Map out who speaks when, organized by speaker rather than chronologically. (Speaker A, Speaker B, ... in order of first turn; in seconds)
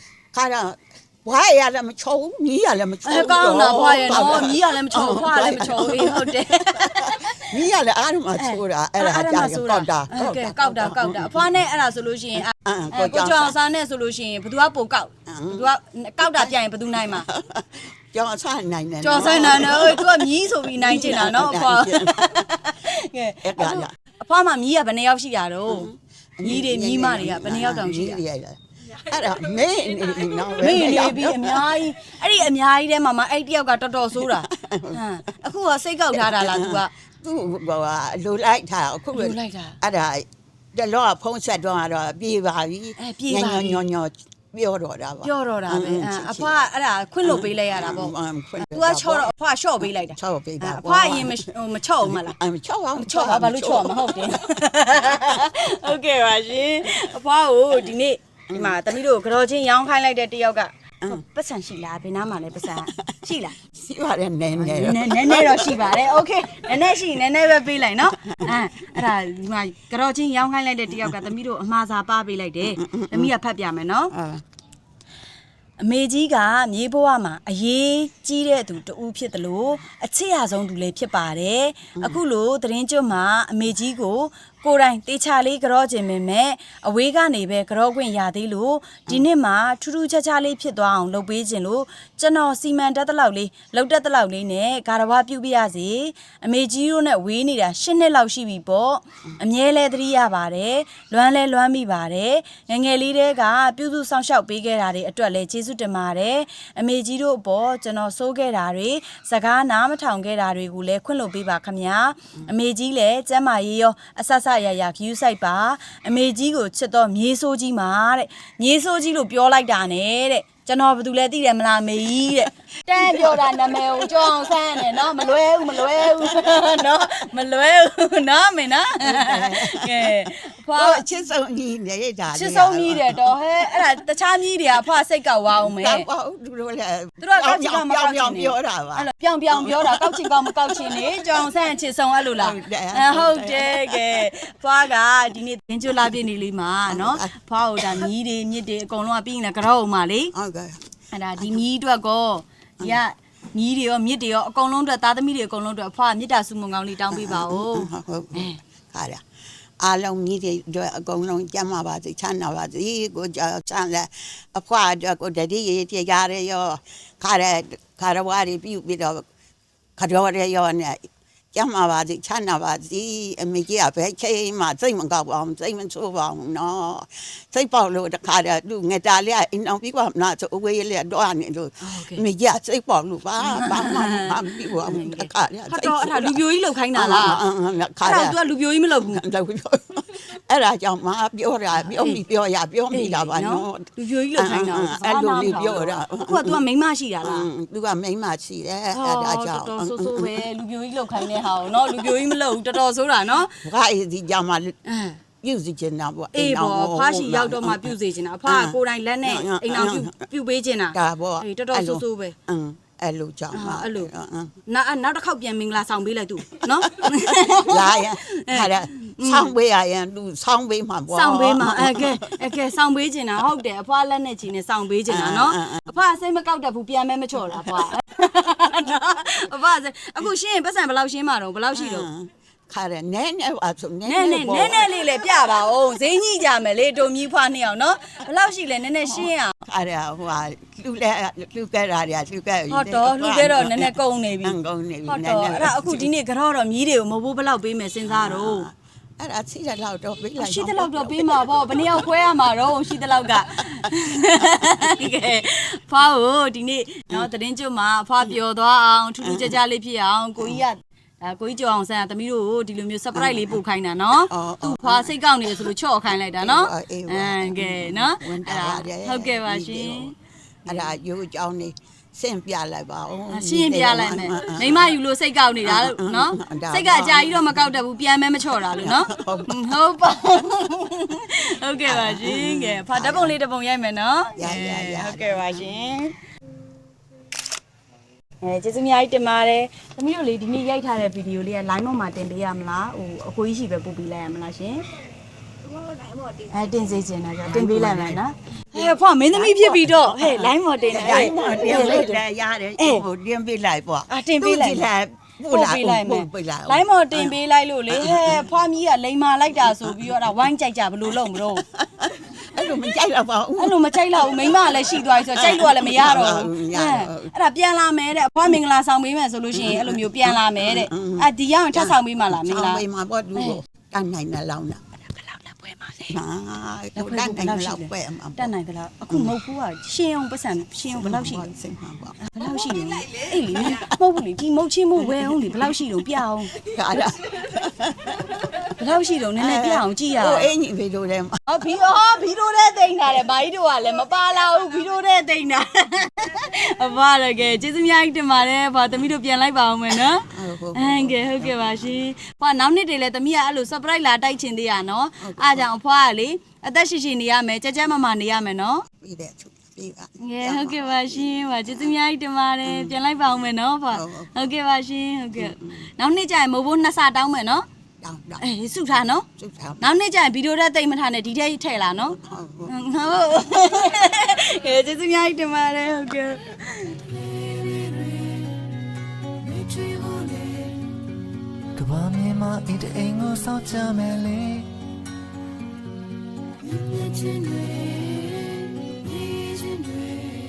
Speaker A: 0.3-11.5, 12.5-13.6, 15.3-15.7, 16.3-22.4, 23.4-23.9, 25.7-31.7, 34.3-35.0, 36.1-46.7, 47.2-49.3, 50.1-51.4, 52.0-54.4, 58.5-58.9, 63.6-66.1, 68.2-69.0, 72.8-73.3, 74.1-74.4, 122.9-126.7, 129.0-133.9, 135.6-141.5, 142.3-144.3, 146.9-148.1, 150.3-150.8, 151.4-151.6, 157.1-159.2, 159.8-169.2, 170.0-186.4, 186.9-188.4, 189.0-196.6, 197.2-200.4, 201.6-202.2, 203.5-204.8, 205.4-207.9, 208.5-210.2, 210.9-214.5, 216.9-222.4, 225.1-225.9, 227.6-227.9, 231.7-235.0, 239.1-246.1, 248.1-252.1, 253.7-254.0, 259.2-259.6, 263.1-263.6, 264.2-265.1, 266.4-270.1, 270.6-274.9, 275.6-277.7, 278.5-279.6, 281.9-283.4, 284.4-285.8, 295.9-296.4, 297.4-298.2, 298.7-307.4, 307.9-308.5, 309.5-310.3, 311.3-317.3, 319.5-324.9, 326.1-328.5, 329.1-329.4, 330.9-332.8, 333.5-333.9, 335.0-335.7, 336.6-338.6, 339.4-341.4, 350.3-352.0, 355.2-355.7, 359.0-361.9, 362.6-363.0, 363.9-364.5, 365.4-365.9, 368.0-368.4, 369.4-369.9, 372.1-372.7
Speaker B: 3.0-7.6, 8.4-17.3, 19.0-25.9, 26.4-28.2, 30.6-36.9, 39.1-39.8, 43.0-43.9, 45.2-52.4, 53.0-63.6, 64.6-74.1, 75.8-131.0, 132.3-136.1, 137.2-150.3, 151.1-158.6, 181.8-182.2, 183.4-187.4, 188.0-189.2, 191.8-192.2, 192.9-197.5, 198.9-203.6, 204.9-205.2, 206.3-212.3, 213.5-214.1, 214.7-219.5, 221.1-232.1, 234.1-239.6, 242.7-244.6, 245.1-248.7, 250.4-270.1, 270.7-270.9, 273.3-286.2, 288.4-294.8, 296.5-302.2, 302.8-303.1, 304.1-304.9, 305.5-311.6, 313.6-322.9, 323.4-323.6, 325.1-326.2, 327.0-331.5, 332.2-337.1, 338.7-340.5, 341.5-358.9, 360.2-367.6, 368.4-369.3, 369.8-378.4, 386.8-390.1
Speaker C: 377.4-377.9, 379.5-380.7, 381.8-384.7, 387.4-388.0